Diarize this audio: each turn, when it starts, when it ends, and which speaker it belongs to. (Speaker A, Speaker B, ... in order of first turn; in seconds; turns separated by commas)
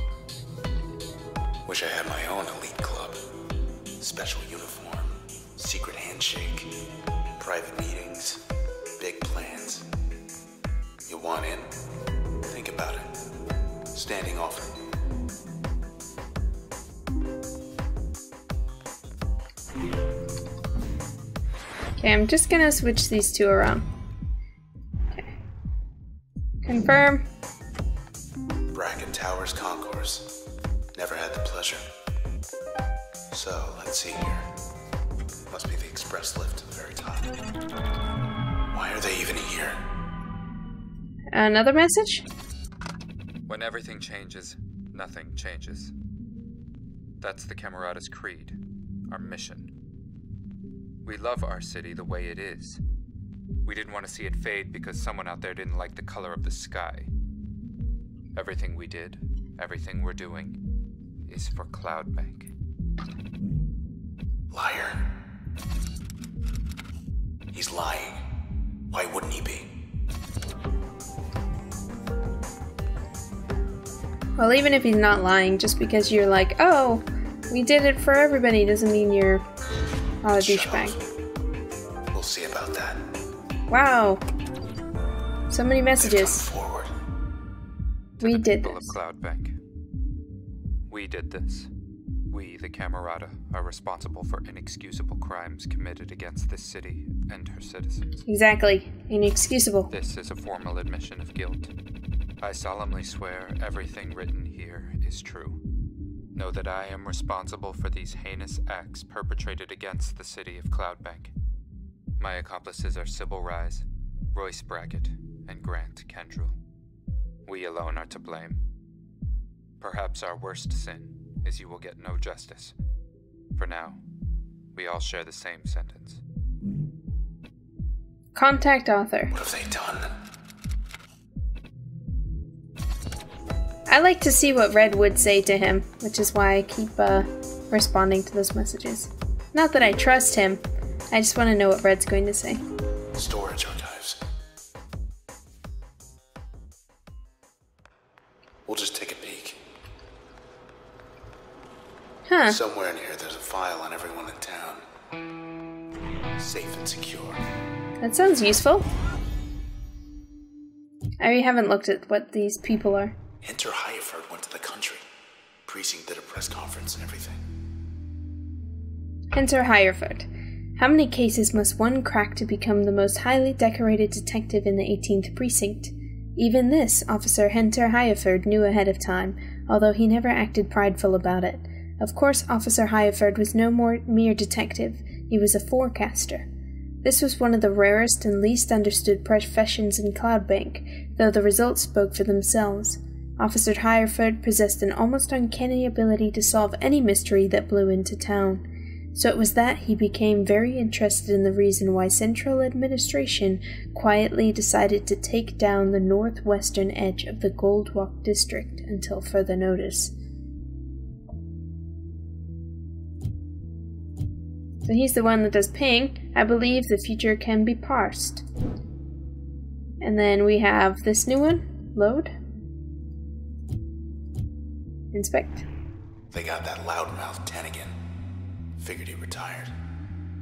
Speaker A: 1.6-3.2, Speaker A: 4.0-6.7, Speaker A: 7.4-8.4, Speaker A: 9.0-9.9, Speaker A: 11.1-11.7, Speaker A: 12.4-13.2, Speaker A: 13.9-14.8, Speaker B: 22.0-23.9, Speaker B: 26.6-27.3, Speaker A: 28.7-30.3, Speaker A: 30.9-31.8, Speaker A: 33.3-34.5, Speaker A: 35.5-37.3, Speaker A: 38.7-39.9, Speaker B: 41.3-42.3, Speaker C: 43.5-45.9, Speaker C: 47.2-48.6, Speaker C: 49.1-49.7, Speaker C: 51.0-52.8, Speaker C: 53.6-57.1, Speaker C: 58.3-60.6, Speaker C: 61.3-62.5, Speaker A: 64.5-65.1, Speaker A: 67.5-68.2, Speaker A: 68.9-69.7, Speaker B: 74.4-79.5, Speaker B: 80.2-81.0, Speaker A: 80.3-81.1, Speaker A: 82.1-83.0, Speaker B: 83.7-84.2, Speaker B: 85.5-86.4, Speaker A: 86.0-86.9, Speaker C: 88.2-89.5, Speaker B: 88.2-88.9, Speaker C: 90.9-91.7, Speaker C: 92.3-98.2, Speaker B: 98.3-99.9, Speaker C: 99.9-101.7, Speaker C: 102.4-105.6, Speaker C: 106.3-111.3, Speaker C: 112.2-116.6, Speaker C: 117.5-118.6, Speaker C: 119.8-122.8, Speaker C: 123.5-124.0, Speaker C: 124.7-126.2, Speaker B: 128.3-129.3, Speaker A: 129.3-130.1, Speaker B: 133.9-142.6, Speaker A: 143.1-144.2, Speaker A: 148.7-149.6, Speaker B: 152.3-152.6, Speaker A: 152.5-154.8, Speaker A: 156.4-157.4, Speaker B: 158.0-158.9, Speaker B: 161.2-163.2, Speaker A: 163.4-165.1, Speaker A: 165.7-167.4, Speaker B: 169.3-186.5, Speaker B: 187.0-210.1, Speaker B: 214.8-218.4, Speaker B: 220.0-222.3, Speaker B: 225.1-225.7, Speaker A: 226.3-227.9, Speaker A: 228.8-229.7